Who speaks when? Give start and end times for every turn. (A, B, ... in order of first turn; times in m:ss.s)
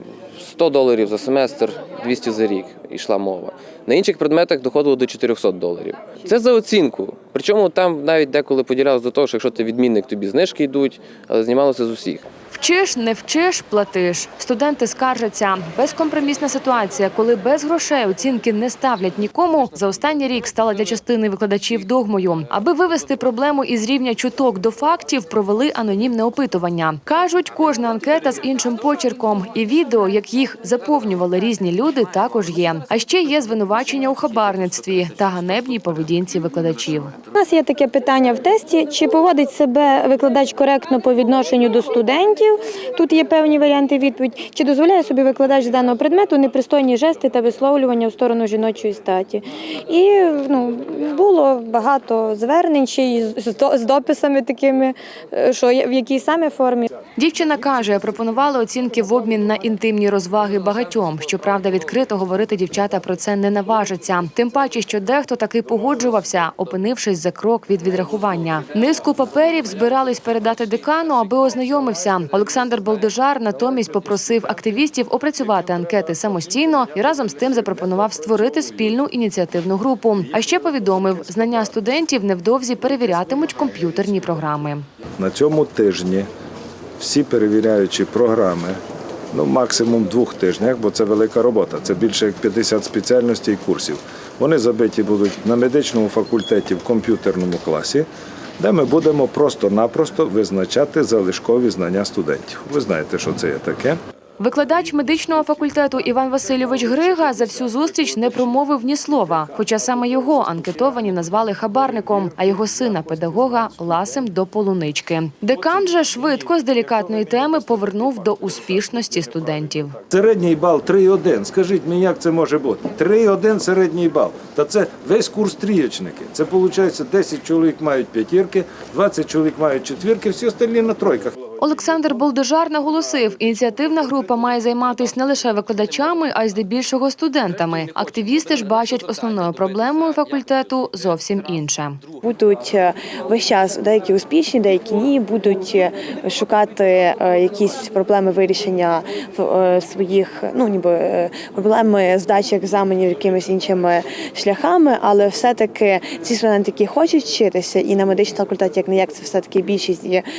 0:00.4-0:12.2 A
0:12.5-0:37.1 B
0:37.3-0:56.9 C
0:57.2-1:24.8 B
1:25.2-1:26.3 D
1:27.0-1:28.8 D
1:29.3-1:38.1 D
1:38.6-1:44.0 D
1:44.4-2:00.0 B
2:00.1-2:11.4 D
2:11.6-2:22.0 B
2:22.2-2:40.2 E